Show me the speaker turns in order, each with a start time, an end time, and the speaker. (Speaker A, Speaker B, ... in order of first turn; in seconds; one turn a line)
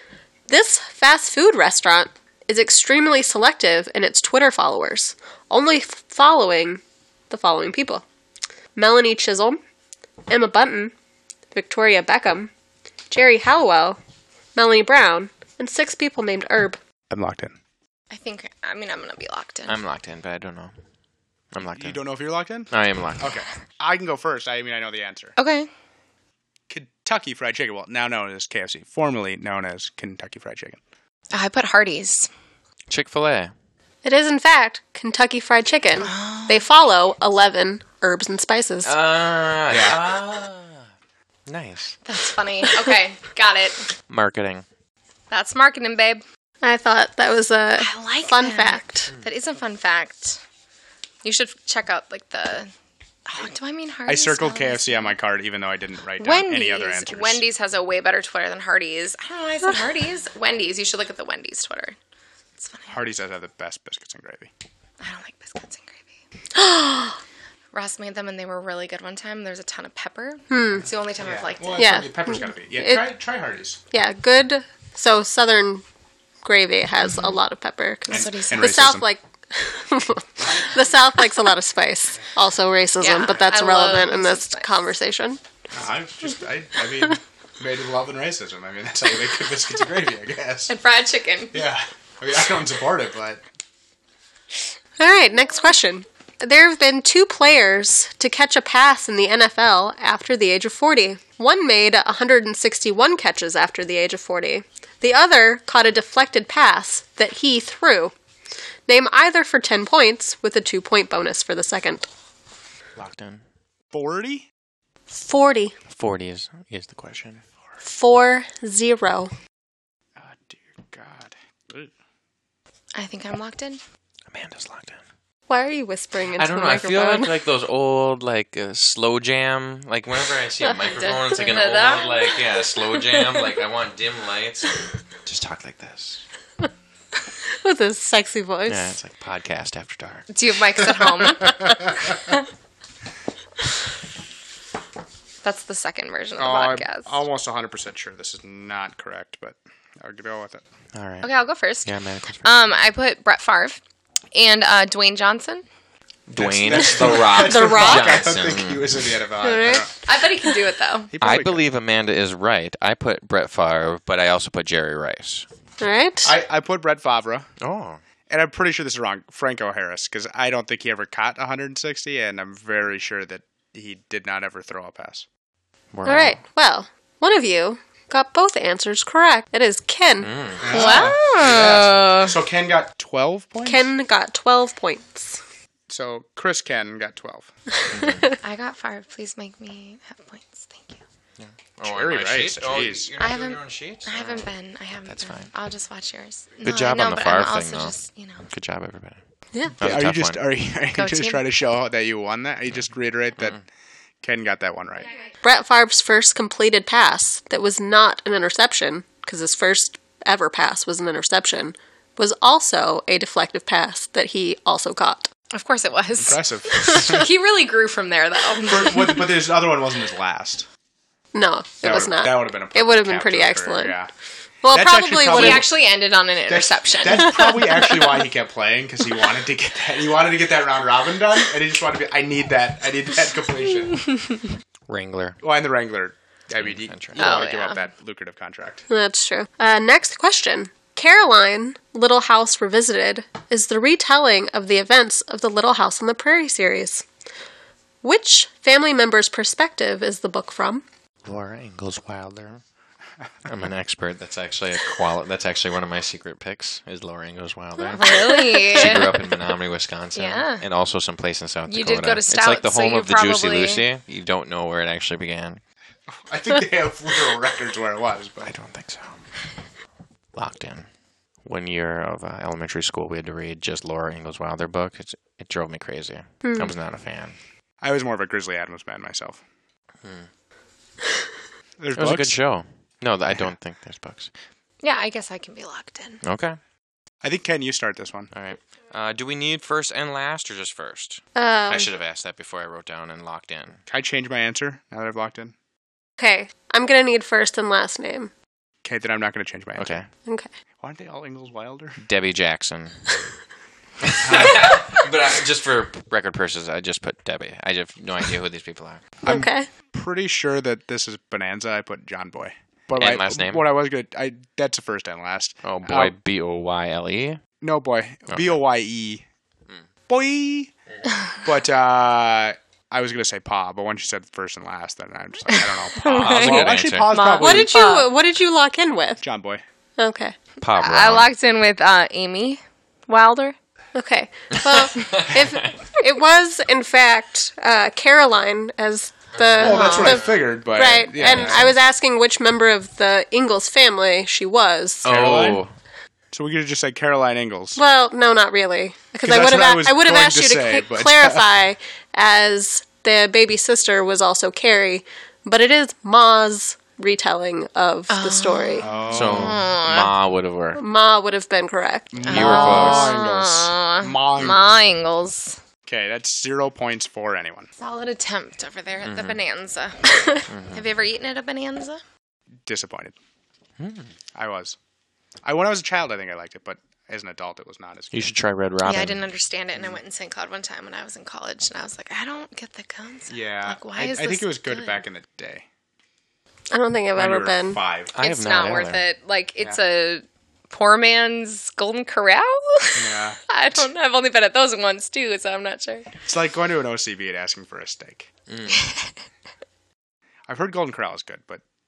Speaker A: 0.5-8.0
Speaker A: 8.7-9.6
Speaker A: 10.3-10.9
Speaker A: 11.5-12.5
Speaker A: 13.1-14.0
Speaker A: 14.5-16.8
Speaker B: 17.1-17.6
Speaker C: 18.1-19.8
Speaker D: 19.7-20.7
Speaker D: 21.5-22.0
Speaker B: 21.8-25.4
Speaker D: 22.7-23.3
Speaker C: 25.4-25.7
Speaker B: 26.7-30.8
Speaker C: 31.3-32.3
Speaker D: 32.9-33.5
Speaker A: 34.0-38.9
Speaker C: 36.0-36.6
Speaker D: 38.8-40.9
Speaker B: 39.7-40.1
Speaker D: 41.5-42.0
Speaker C: 42.0-43.9
Speaker D: 44.1-44.6
Speaker C: 45.3-46.2
Speaker A: 46.6-49.1
Speaker C: 47.8-50.4
Speaker C: 51.2-52.7
Speaker C: 53.3-55.1
Speaker B: 54.1-57.4
Speaker C: 56.2-62.0
Speaker C: 62.6-63.0
Speaker B: 62.9-64.5
Speaker C: 65.0-66.0
Speaker A: 66.5-67.2
Speaker C: 67.7-72.0
Speaker A: 70.5-70.9
Speaker B: 71.2-73.8
Speaker A: 71.8-73.1
Speaker A: 73.9-75.8
Speaker A: 76.4-85.4
Speaker C: 77.1-77.3
Speaker C: 78.1-78.9
Speaker B: 78.1-79.1
Speaker C: 83.0-84.7
Speaker B: 85.7-90.7
Speaker C: 90.7-91.6
Speaker B: 91.5-93.4
Speaker A: 95.0-108.1
Speaker A: 108.9-112.1
Speaker D: 113.0-113.4
Speaker B: 113.9-114.5
Speaker A: 115.1-115.7
Speaker D: 115.9-117.4
Speaker A: 117.8-119.3
Speaker B: 120.2-121.9
Speaker C: 122.9-123.8
Speaker D: 124.3-125.0
Speaker A: 125.5-127.4
Speaker D: 126.3-136.2
Speaker C: 130.8-133.6
Speaker A: 137.4-139.0
Speaker D: 138.7-140.3
Speaker C: 140.3-141.9
Speaker B: 140.9-142.1
Speaker C: 145.4-147.1
Speaker B: 146.4-150.6
Speaker D: 150.9-151.3
Speaker C: 151.2-151.9
Speaker D: 151.8-152.7
Speaker C: 152.4-153.8
Speaker C: 154.3-155.7
Speaker D: 156.3-159.0
Speaker B: 156.3-159.9
Speaker A: 157.1-158.3
Speaker A: 159.4-160.6
Speaker C: 160.0-161.1
Speaker B: 161.1-161.6
Speaker D: 161.2-165.4
Speaker A: 165.8-166.3
Speaker B: 166.2-167.5
Speaker D: 167.6-168.0
Speaker B: 168.3-175.2
Speaker D: 175.9-176.4
Speaker A: 176.0-180.3
Speaker D: 180.2-181.1
Speaker B: 180.6-183.8
Speaker C: 180.7-182.4
Speaker A: 183.6-185.4
Speaker B: 185.9-187.5
Speaker A: 187.8-188.3
Speaker D: 187.9-188.3
Speaker C: 188.3-191.0
Speaker D: 191.4-194.5
Speaker B: 191.8-193.1
Speaker C: 193.2-198.5
Speaker D: 195.1-195.5
Speaker D: 196.6-197.9
Speaker D: 198.5-199.2
Speaker D: 199.8-200.4
Speaker B: 199.8-203.6
Speaker C: 200.9-201.4
Speaker B: 204.2-205.1
Speaker C: 205.0-205.3
Speaker A: 205.4-215.3
Speaker C: 215.5-219.2
Speaker B: 216.2-217.3
Speaker B: 218.6-220.7
Speaker A: 221.3-224.0
Speaker B: 221.8-224.1
Speaker A: 224.6-225.7
Speaker B: 224.7-225.7
Speaker C: 225.3-227.6
Speaker B: 226.5-234.1
Speaker A: 227.3-228.2
Speaker D: 234.9-235.4
Speaker B: 235.4-238.9
Speaker D: 236.6-237.4
Speaker C: 237.2-237.8
Speaker A: 238.9-247.1
Speaker A: 248.0-250.8
Speaker D: 251.2-252.6
Speaker D: 253.4-265.6
Speaker C: 257.9-259.2
Speaker C: 260.1-260.6
Speaker C: 261.7-263.8
Speaker B: 266.1-268.5
Speaker D: 268.4-269.3
Speaker D: 270.3-270.9
Speaker D: 271.4-277.4
Speaker A: 276.4-276.7
Speaker B: 277.8-279.4
Speaker D: 280.0-280.3
Speaker B: 281.8-282.4
Speaker D: 281.9-284.3
Speaker C: 284.8-286.2
Speaker D: 286.2-286.6
Speaker B: 287.2-288.3
Speaker D: 288.3-293.8
Speaker A: 291.3-291.9
Speaker B: 293.9-295.5
Speaker A: 296.2-298.3
Speaker B: 298.8-300.0
Speaker D: 299.8-300.1
Speaker B: 300.8-302.0
Speaker D: 302.0-303.0
Speaker D: 304.0-309.1
Speaker B: 304.2-304.8
Speaker B: 309.2-316.1
Speaker A: 309.2-309.7
Speaker D: 312.9-313.6
Speaker D: 315.6-317.4
Speaker B: 317.6-319.2
Speaker D: 318.3-318.6
Speaker B: 320.1-320.7
Speaker B: 321.4-327.8
Speaker C: 325.9-328.1
Speaker D: 325.9-327.1
Speaker A: 327.4-329.2
Speaker B: 329.2-329.6
Speaker A: 330.0-330.4
Speaker D: 330.6-331.3
Speaker C: 330.8-333.6
Speaker A: 333.9-345.1
Speaker D: 334.5-335.8
Speaker B: 339.4-341.7
Speaker C: 339.6-340.2
Speaker D: 339.6-340.3
Speaker D: 341.2-341.7
Speaker B: 345.0-345.6
Speaker D: 345.0-345.7
Speaker B: 346.3-347.8
Speaker A: 347.8-358.9
Speaker B: 349.2-351.4
Speaker C: 358.1-360.1
Speaker B: 358.8-359.6
Speaker D: 359.1-360.8
Speaker A: 360.8-362.3
Speaker B: 362.1-364.7
Speaker C: 362.2-365.6
Speaker D: 362.3-363.2
Speaker B: 365.9-367.7
Speaker C: 367.8-372.0
Speaker D: 369.0-369.4
Speaker D: 370.5-370.8
Speaker B: 372.6-373.1
Speaker D: 373.8-374.1
Speaker B: 374.3-374.8
Speaker B: 375.4-378.3
Speaker D: 378.1-379.3
Speaker C: 378.8-385.0
Speaker B: 383.3-385.6
Speaker A: 386.7-387.8
Speaker B: 387.1-388.1
Speaker D: 388.1-389.0
Speaker C: 388.2-396.1
Speaker B: 392.9-393.4
Speaker B: 396.2-398.3
Speaker D: 398.5-398.9
Speaker B: 400.5-401.6